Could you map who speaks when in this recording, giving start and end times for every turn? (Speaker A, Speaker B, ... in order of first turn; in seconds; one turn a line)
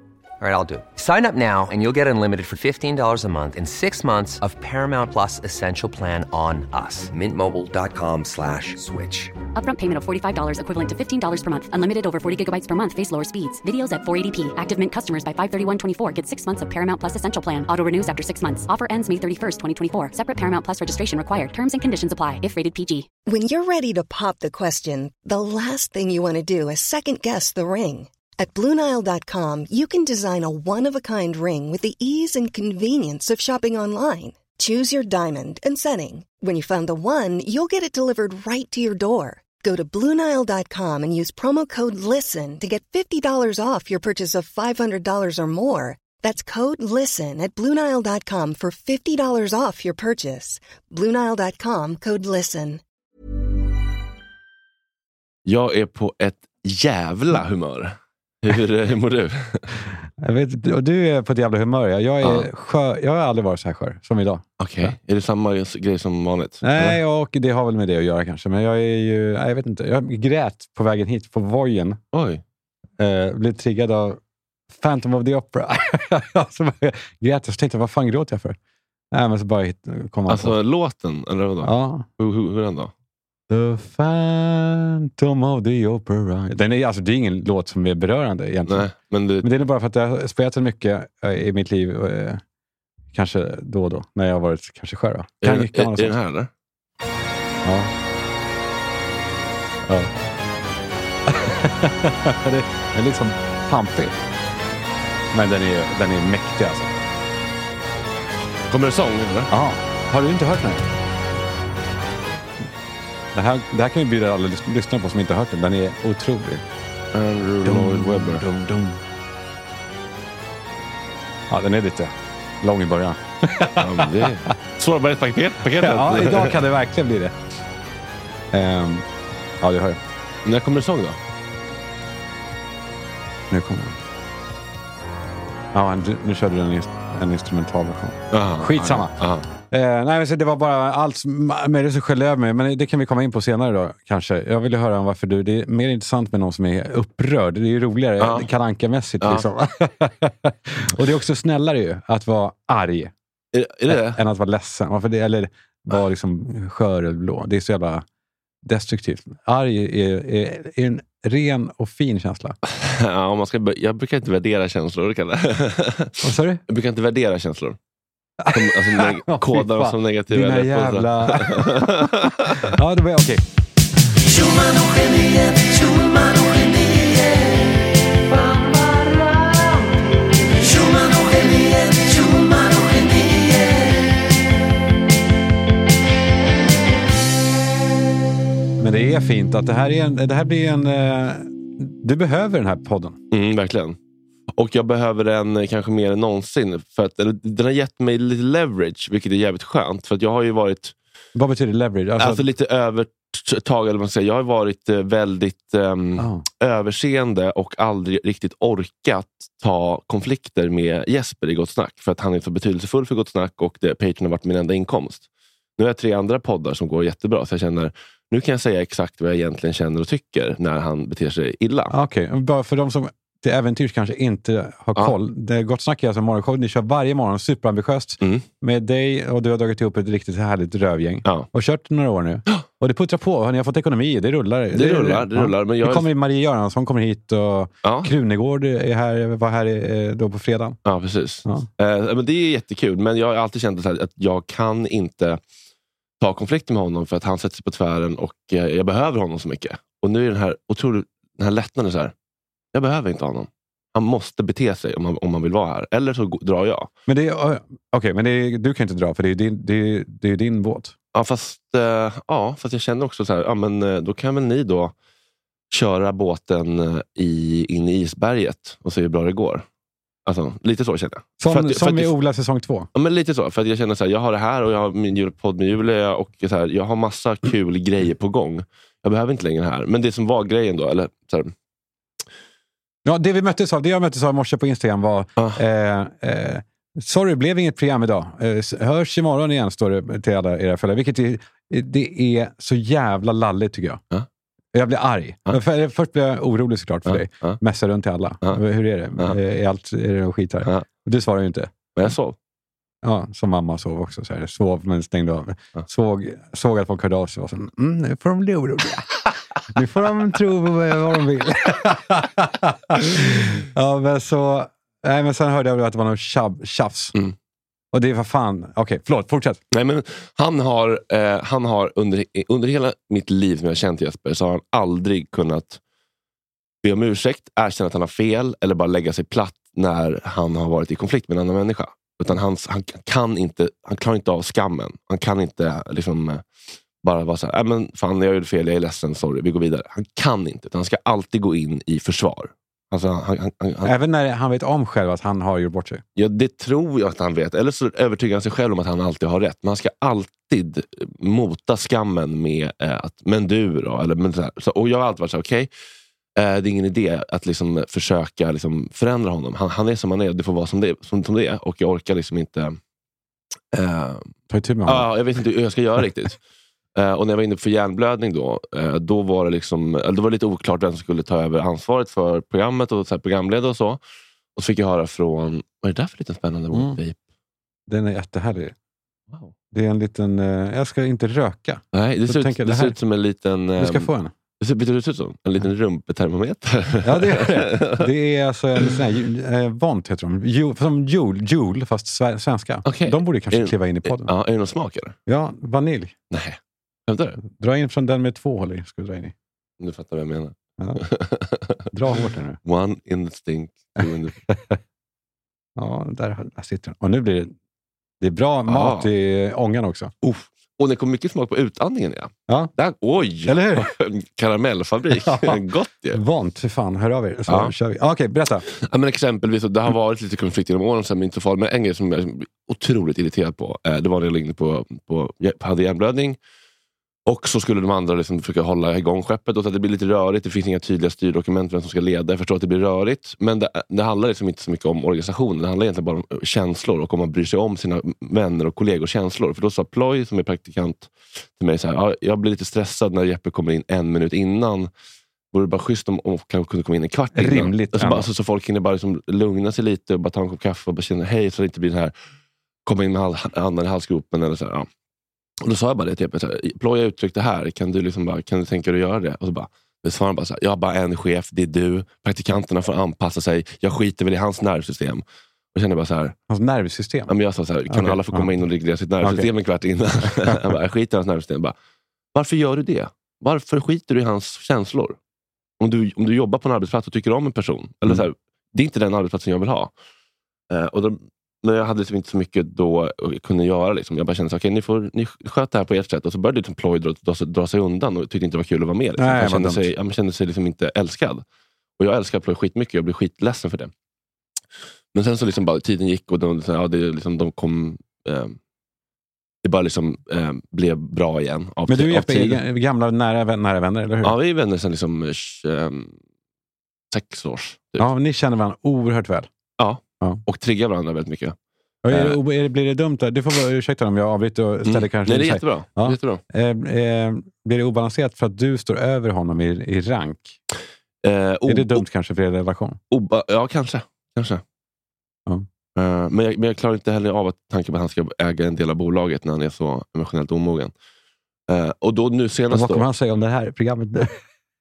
Speaker A: 0.4-9.3
Speaker B: 9.6-23.1
Speaker C: 23.3-52.8
Speaker D: 55.5-59.6
Speaker E: 60.2-64.9
Speaker D: 62.2-62.5
Speaker D: 64.6-67.0
Speaker E: 66.6-72.0
Speaker D: 72.1-72.4
Speaker E: 73.0-74.2
Speaker E: 74.7-78.6
Speaker E: 79.1-80.6
Speaker D: 80.3-82.9
Speaker E: 81.6-82.1
Speaker E: 83.5-88.9
Speaker D: 88.7-89.5
Speaker E: 89.4-92.4
Speaker E: 93.1-96.2
Speaker D: 95.4-96.5
Speaker E: 97.6-97.9
Speaker E: 99.9-100.1
Speaker E: 101.3-104.2
Speaker E: 105.3-106.9
Speaker D: 108.7-109.5
Speaker E: 109.5-110.8
Speaker E: 113.3-116.6
Speaker D: 117.1-118.5
Speaker E: 117.6-119.0
Speaker E: 121.5-124.3
Speaker D: 123.8-126.6
Speaker E: 125.8-127.3
Speaker E: 128.5-129.1
Speaker E: 129.6-130.0
Speaker D: 130.4-131.2
Speaker E: 133.5-134.0
Speaker E: 135.7-139.2
Speaker D: 138.3-139.5
Speaker E: 139.7-153.1
Speaker D: 148.2-148.5
Speaker D: 149.2-149.5
Speaker D: 153.5-154.2
Speaker E: 153.9-158.0
Speaker E: 158.7-162.6
Speaker D: 162.7-167.8
Speaker E: 166.2-166.6
Speaker E: 168.4-173.4
Speaker D: 168.5-172.8
Speaker E: 188.8-193.2
Speaker D: 193.3-194.0
Speaker D: 194.5-200.9
Speaker E: 201.3-202.4
Speaker D: 202.2-215.3
Speaker E: 206.2-206.4
Speaker D: 215.8-221.9
Speaker E: 221.9-240.8
Speaker D: 228.2-228.5
Speaker D: 234.7-236.1
Speaker D: 237.8-238.1
Speaker D: 240.8-245.4
Speaker D: 246.2-252.1
Speaker D: 252.7-256.9
Speaker E: 257.1-260.9
Speaker D: 261.1-264.9
Speaker D: 265.7-269.7
Speaker D: 270.2-272.1
Speaker E: 271.4-272.9
Speaker D: 272.9-281.5
Speaker E: 283.1-294.0
Speaker E: 294.7-301.7
Speaker D: 297.1-297.6
Speaker D: 302.0-302.4
Speaker E: 303.0-317.1
Speaker E: 317.9-319.6
Speaker D: 319.7-325.8
Speaker D: 326.8-336.4
Speaker D: 337.0-343.9
Speaker E: 343.8-346.0
Speaker D: 346.2-355.7
Speaker D: 356.4-362.8
Speaker D: 363.7-364.3
Speaker E: 364.5-365.1
Speaker D: 364.9-366.4
Speaker D: 366.9-374.0
Speaker D: 374.6-377.2
Speaker E: 376.7-377.0
Speaker E: 377.9-378.7
Speaker E: 379.7-383.0
Speaker D: 381.9-388.1
Speaker E: 383.8-384.3
Speaker E: 387.0-394.3
Speaker D: 392.9-395.2
Speaker E: 395.3-396.1
Speaker D: 396.3-397.4
Speaker E: 397.4-399.3
Speaker D: 399.8-401.8
Speaker E: 401.9-402.6
Speaker D: 402.6-404.4
Speaker E: 404.0-404.8
Speaker E: 405.8-407.5
Speaker E: 408.2-410.1
Speaker D: 408.7-409.1
Speaker D: 410.2-416.2
Speaker E: 413.5-413.9
Speaker E: 415.2-418.7
Speaker D: 417.5-417.7
Speaker D: 418.7-426.4
Speaker D: 427.3-444.9
Speaker D: 445.5-452.1
Speaker E: 447.4-448.3
Speaker D: 452.9-454.9
Speaker D: 455.6-466.4
Speaker E: 466.5-467.3
Speaker D: 467.3-471.8
Speaker E: 467.9-468.5
Speaker E: 469.2-469.5
Speaker D: 472.3-475.2
Speaker D: 475.8-479.9
Speaker D: 480.7-491.4
Speaker E: 489.2-489.9
Speaker D: 492.0-493.9
Speaker D: 495.1-498.6
Speaker D: 499.6-502.6
Speaker E: 501.9-504.4
Speaker D: 504.2-506.2
Speaker D: 507.1-508.1
Speaker E: 508.0-509.5
Speaker D: 509.8-511.6
Speaker E: 512.0-520.6
Speaker D: 512.1-512.4
Speaker D: 514.9-516.4
Speaker D: 521.2-522.0
Speaker E: 521.7-523.0
Speaker D: 523.1-524.6
Speaker D: 526.0-530.9
Speaker D: 531.7-533.1
Speaker E: 532.7-534.4